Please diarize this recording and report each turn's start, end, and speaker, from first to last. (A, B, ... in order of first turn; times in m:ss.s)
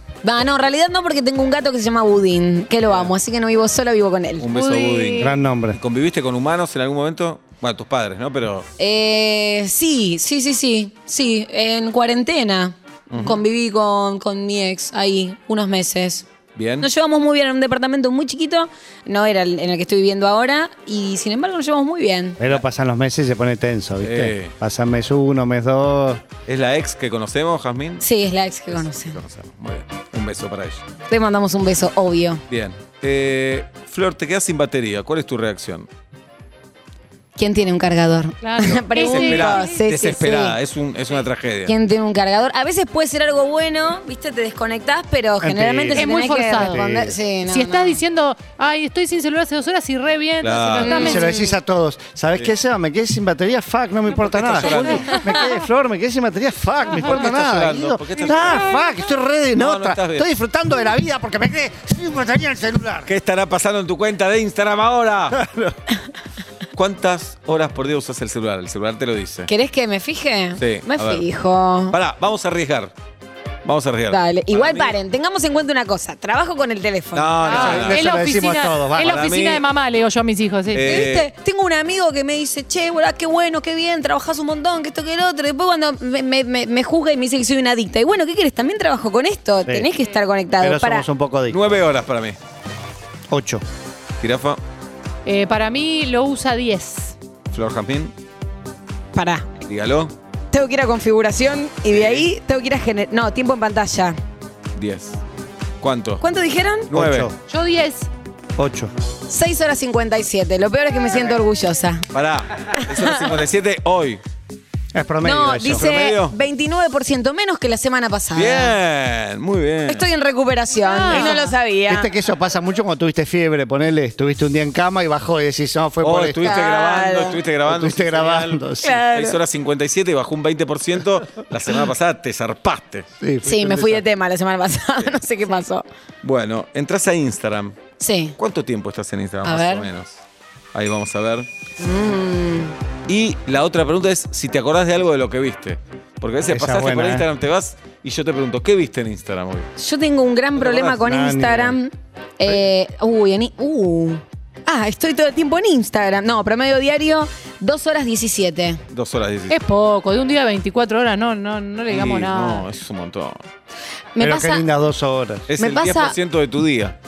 0:00.2-0:04.5 A
0:04.4-0:08.7 B
0:04.5-0:05.3 C
0:05.2-0:05.8 D
0:08.8-0:16.3 A
0:13.1-0:13.4 B
0:16.6-0:16.9 B
0:16.8-0:22.4 A
0:22.4-0:26.2 D
0:24.0-0:24.5 B
0:26.5-0:28.0 B
0:28.0-0:29.2 A
0:28.7-0:30.8 B
0:31.1-0:32.4 A
0:32.5-0:35.9 B
0:37.4-0:40.6 A
0:38.4-0:39.8 C
0:38.8-0:41.7 B
0:41.7-0:48.0 A
0:45.4-0:46.1 D
0:45.9-0:46.8 C
0:46.6-0:47.2 D
0:47.4-0:51.3 C
0:50.4-0:51.2 B
0:50.8-0:51.6 A
0:51.0-1:03.1 D
0:54.1-0:55.3 B
0:54.6-0:55.5 C
0:57.0-0:58.8 B
0:59.6-1:00.3 B
1:03.1-1:05.5 B
1:05.3-1:05.7 D
1:06.7-1:09.5 B
1:09.5-1:12.0 A
1:10.6-1:11.2 B
1:11.9-1:12.9 B
1:13.6-1:15.0 B
1:14.1-1:17.8 A
1:17.2-1:18.1 B
1:17.4-1:21.0 C
1:17.6-1:19.2 D
1:19.0-1:19.6 B
1:20.7-1:21.3 B
1:20.8-1:31.1 A
1:30.6-1:31.6 D
1:31.5-1:32.4 B
1:33.3-1:33.6 D
1:34.2-1:34.6 B
1:35.2-1:37.2 C
1:37.5-1:38.1 B
1:39.1-1:39.5 A
1:39.6-1:40.1 B
1:40.5-1:44.2 A
1:41.9-1:42.3 B
1:44.8-1:45.2 B
1:45.8-1:46.2 B
1:46.2-1:46.9 A
1:46.9-1:47.3 B
1:46.9-1:47.4 D
1:47.5-1:48.1 C
1:48.6-1:48.9 D
1:49.3-1:52.1 A
1:52.1-1:54.2 B
1:52.8-1:53.2 A
1:54.9-1:55.8 D
1:55.2-1:58.8 A
1:55.6-1:56.3 B
1:58.4-2:00.0 B
1:59.9-2:02.1 A
2:00.8-2:01.6 C
2:01.9-2:06.6 D
2:06.0-2:13.1 B
2:06.4-2:07.4 A
2:07.7-2:09.0 D
2:08.8-2:09.4 A
2:13.2-2:14.0 D
2:13.4-2:15.8 A
2:16.2-2:17.8 B
2:18.0-2:18.4 A
2:18.4-2:20.2 B
2:19.4-2:19.9 A
2:20.7-2:21.5 B
2:21.8-2:22.8 A
2:23.1-2:29.7 B
2:26.5-2:27.3 D
2:29.8-2:38.8 A
2:30.6-2:31.0 B
2:31.0-2:31.8 D
2:38.9-2:39.6 B
2:39.5-2:42.7 C
2:41.9-2:43.4 B
2:44.2-2:44.7 A
2:44.2-2:45.5 D
2:45.5-2:47.0 B
2:45.6-2:46.2 A